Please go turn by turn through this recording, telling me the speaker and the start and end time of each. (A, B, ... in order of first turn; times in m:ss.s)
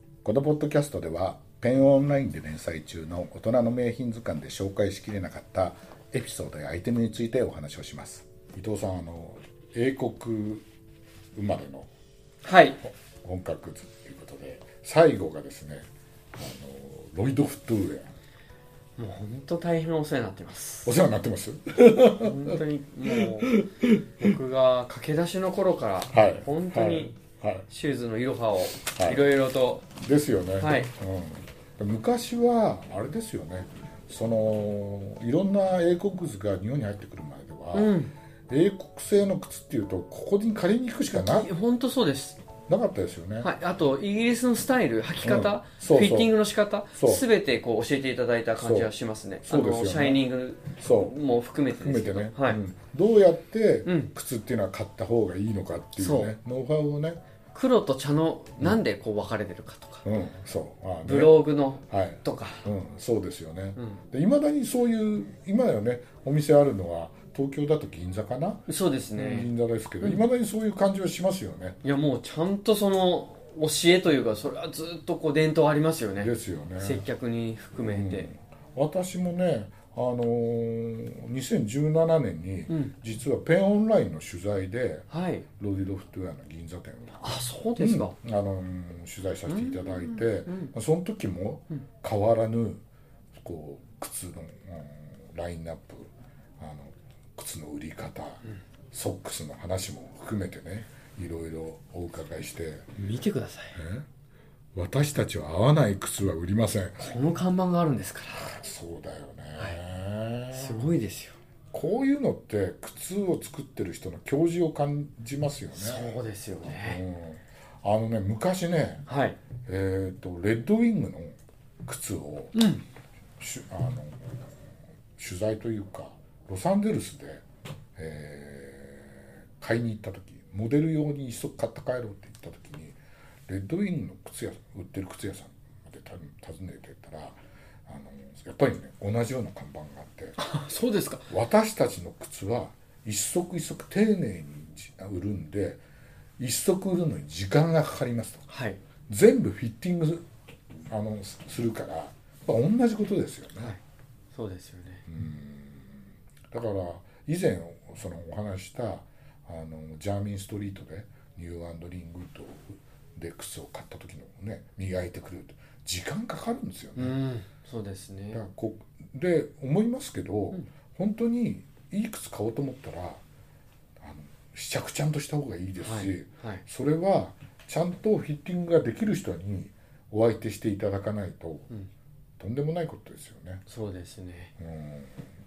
0:00.2-0:10.6 A
0:11.4-0:11.9 A
0:12.4-0:12.8 B
0:12.9-0:18.1 A
0:19.0-0:20.9 B
0:20.8-0:24.3 A
0:22.2-0:23.6 B
0:24.2-0:27.1 B
0:26.1-0:27.7 A
0:27.7-0:29.9 B
0:28.9-0:29.3 A
0:30.0-0:38.0 A
0:30.6-0:30.9 B
0:37.7-0:38.1 B
0:38.5-0:41.5 A
0:41.2-0:42.4 B
0:42.7-0:43.5 A
0:43.4-0:52.6 B
0:45.2-0:46.4 A
0:46.9-0:47.2 A
0:48.6-0:48.9 A
0:49.5-0:51.2 A
0:51.7-0:57.2 A
0:53.8-0:54.1 B
0:56.0-0:56.4 B
0:57.5-1:00.0 B
1:00.0-1:01.4 A
1:01.0-1:02.7 B
1:01.9-1:11.8 A
1:08.7-1:10.2 B
1:11.8-1:18.3 B
1:16.2-1:17.1 A
1:17.8-1:32.8 A
1:25.1-1:25.4 B
1:27.2-1:28.1 B
1:29.5-1:30.7 B
1:33.4-1:42.9 A
1:43.0-1:43.8 B
1:43.8-1:44.1 A
1:44.7-1:47.2 A
1:47.0-1:48.6 B
1:48.4-1:51.0 A
1:50.5-1:51.4 B
1:51.7-1:56.1 A
1:55.7-1:57.0 B
1:56.6-1:59.0 A
1:59.1-1:59.4 B
1:59.7-2:02.6 A
2:02.6-2:02.8 B
2:03.4-2:04.6 A
2:05.2-2:07.4 A
2:08.0-2:20.4 A
2:20.4-2:21.3 B
2:21.3-2:25.8 A
2:26.4-2:28.4 A
2:28.5-2:28.8 B
2:29.1-2:30.2 A
2:30.9-2:33.7 A
2:34.3-2:35.0 B
2:35.1-2:47.2 A
2:47.0-2:48.4 B
2:48.3-2:53.2 A
2:54.0-3:01.7 A
2:55.8-2:56.6 B
3:02.4-3:03.6 A
3:03.7-3:04.5 B
3:04.6-3:05.2 A